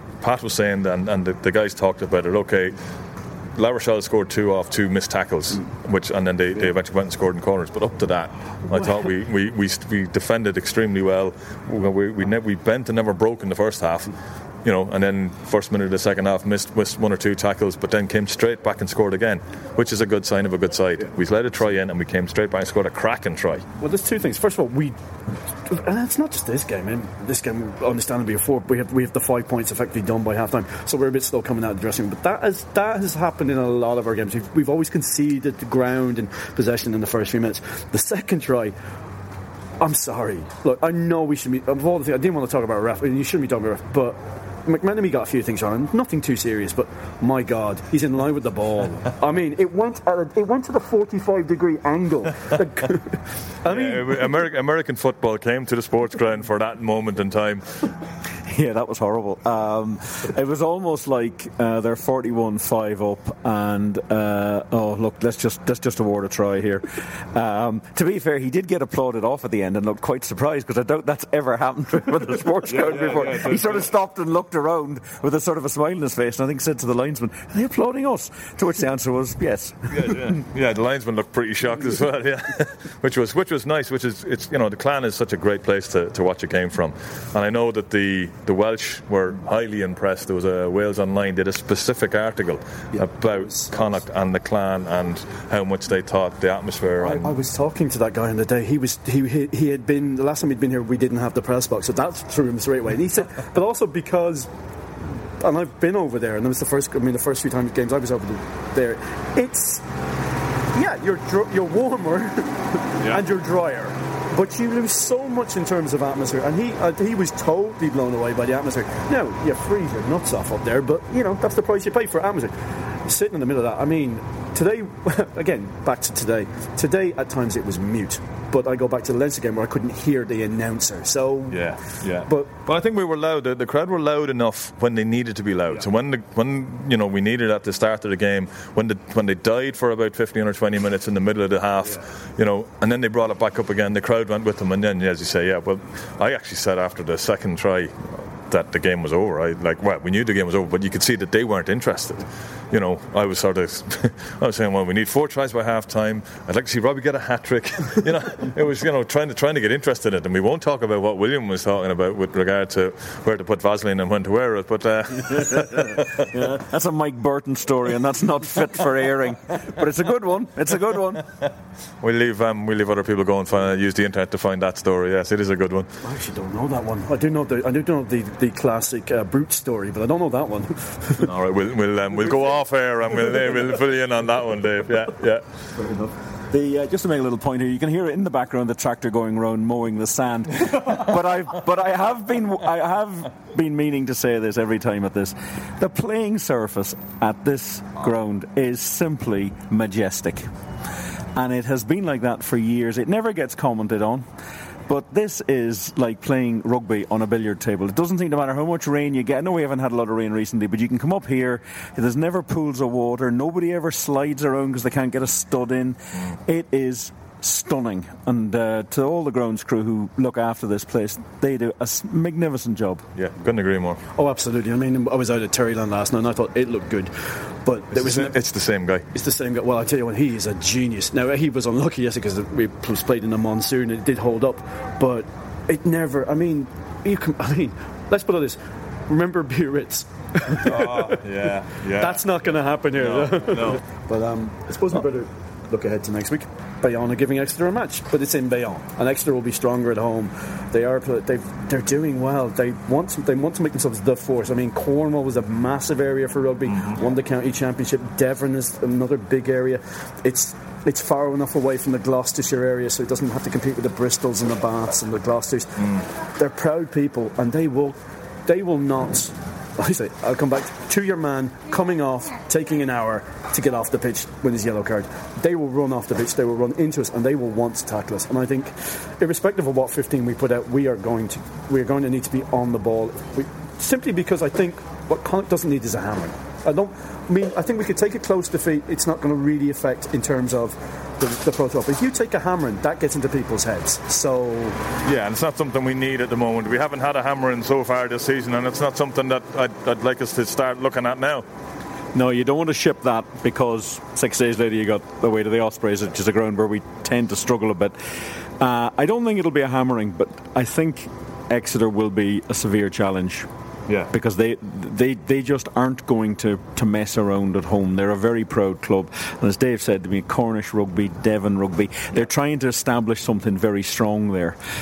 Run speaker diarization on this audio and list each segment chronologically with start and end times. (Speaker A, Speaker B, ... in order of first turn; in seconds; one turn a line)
Speaker A: 0.2-2.8
Speaker A: 3.6-14.1
Speaker A: 14.6-23.6
Speaker B: 23.8-25.0
Speaker B: 25.6-38.8
Speaker B: 39.8-54.3
Speaker A: 53.7-57.6
Speaker C: 58.5-80.2
Speaker A: 72.7-73.9
Speaker A: 79.9-97.3
Speaker B: 93.0-93.7
Speaker B: 97.0-104.5
Speaker B: 105.4-109.8
Speaker B: 110.7-131.8
Speaker A: 131.5-166.1
Speaker B: 132.3-132.5
Speaker C: 165.8-171.3
Speaker A: 172.0-175.9
Speaker B: 176.0-181.3
Speaker A: 181.2-185.4
Speaker C: 186.5-200.5
Speaker C: 201.3-204.2
Speaker C: 204.9-223.1
Speaker A: 223.2-224.0
Speaker B: 224.2-228.4
Speaker A: 227.9-229.1
Speaker B: 229.1-294.8
Speaker A: 240.6-242.2
Speaker A: 243.0-243.8
Speaker A: 265.8-266.1
Speaker A: 295.0-301.4
Speaker C: 302.1-308.0
Speaker C: 308.6-313.5
Speaker C: 314.1-324.6